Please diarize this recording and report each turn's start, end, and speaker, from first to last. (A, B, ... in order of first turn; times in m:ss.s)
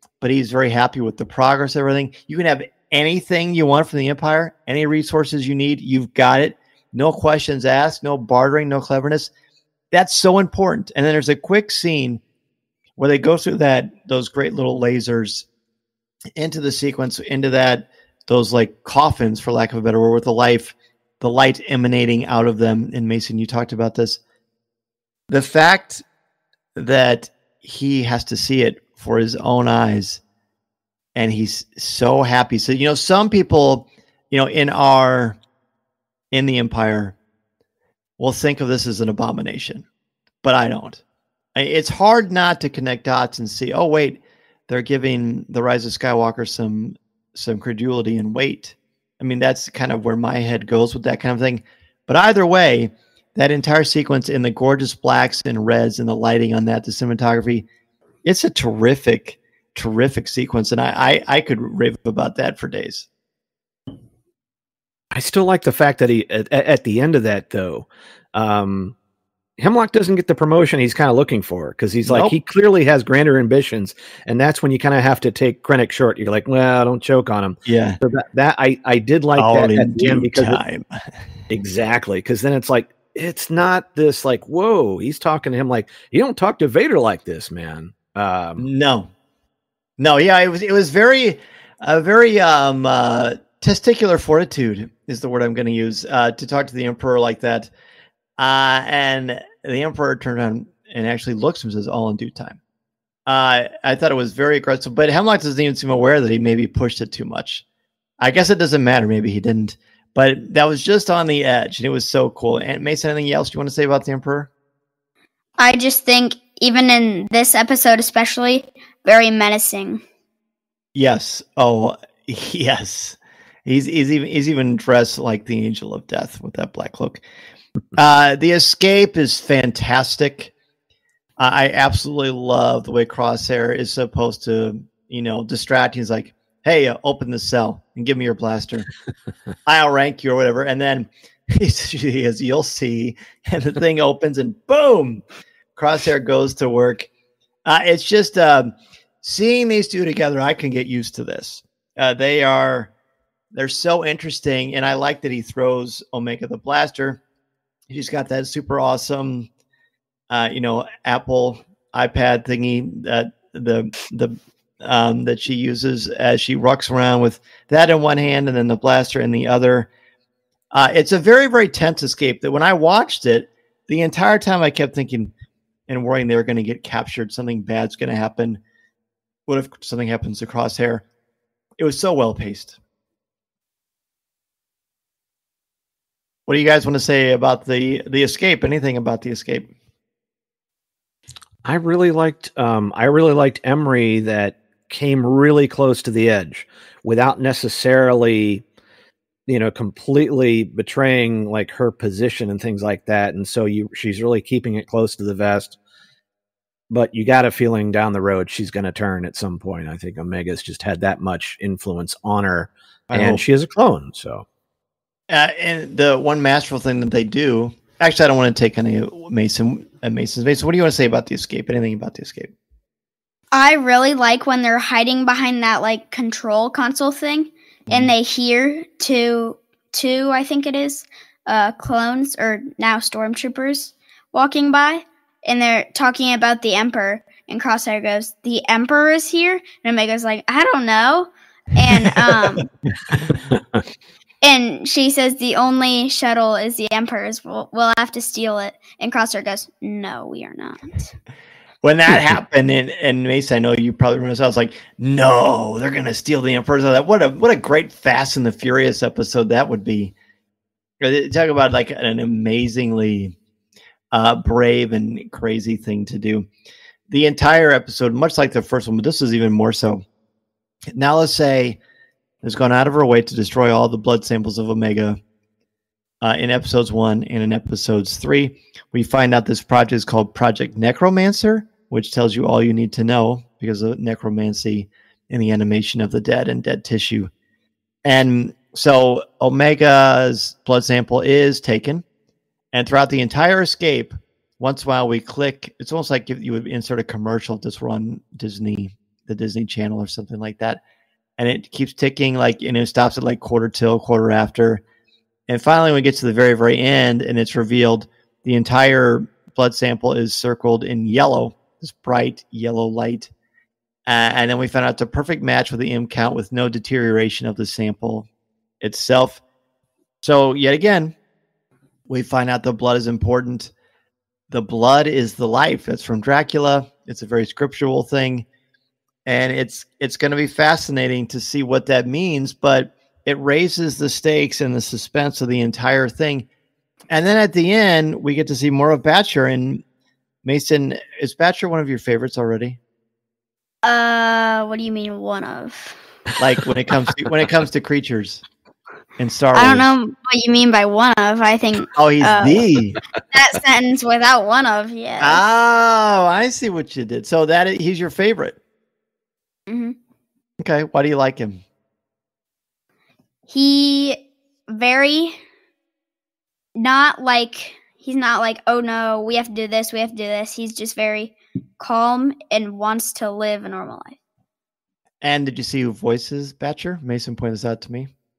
0:00.2-0:09.3 A
0:09.9-0:12.2 A
0:13.0-0:15.5 A
0:16.3-0:24.2 A
0:25.3-0:26.0 A
0:26.8-0:30.2 A
0:31.1-0:35.4 A
0:36.3-0:37.2 A
0:38.2-0:39.8 A
0:40.4-0:41.0 A
0:41.5-0:57.7 A
0:58.2-1:03.1 A
1:05.1-1:08.9 B
1:09.6-1:20.6 B
1:12.0-1:12.3 A
1:17.6-1:18.0 A
1:19.4-1:21.1 A
1:21.5-1:28.7 B
1:28.6-1:29.1 A
1:30.0-1:37.7 A
1:38.4-1:42.6 A
1:43.3-1:47.6 A
1:48.2-1:54.5 A
1:55.6-2:00.0 C
2:00.9-2:07.2 A
2:07.9-2:10.5 A
2:11.4-2:18.9 A
2:19.6-2:25.2 A
2:25.8-2:27.1 A
2:27.6-2:32.9 A
2:33.5-2:37.2 A
2:37.9-2:39.5 A
2:40.3-2:49.9 A
2:50.7-2:55.3 A
2:55.9-2:58.6 A
2:59.5-3:01.0 A
3:01.8-3:02.8 A
3:06.5-3:09.7 A
3:11.6-3:18.6 B
3:19.5-3:25.8 B
3:26.9-3:34.4 B
3:33.1-3:33.4 A
3:35.3-3:42.5 A
3:43.5-4:02.7 C
4:03.5-4:03.8 B
4:04.4-4:11.1 C
4:11.8-4:20.1 A
4:21.0-4:23.4 A
4:24.1-4:26.5 A
4:27.1-4:30.0 A
4:30.9-4:31.8 A
4:32.4-4:35.2 A
4:36.2-4:47.3 A
4:48.0-4:52.0 A
4:52.7-5:00.8 A
5:01.4-5:04.8 A
5:05.5-5:13.3 A
5:14.0-5:18.3 A
5:18.8-5:19.4 A
5:20.2-5:21.1 A
5:22.1-5:23.7 A
5:24.5-5:28.4 A
5:29.2-5:36.4 A
5:37.1-5:39.8 A
5:40.4-5:42.8 A
5:43.8-5:46.0 C
5:46.4-5:48.4 A
5:49.2-5:49.9 A
5:49.5-5:55.4 C
5:51.9-5:53.0 A
5:55.2-5:58.6 A
5:59.7-6:00.0 C
6:00.6-6:01.6 A
6:03.5-6:05.4 C
6:06.8-6:14.2 C
6:15.2-6:18.1 A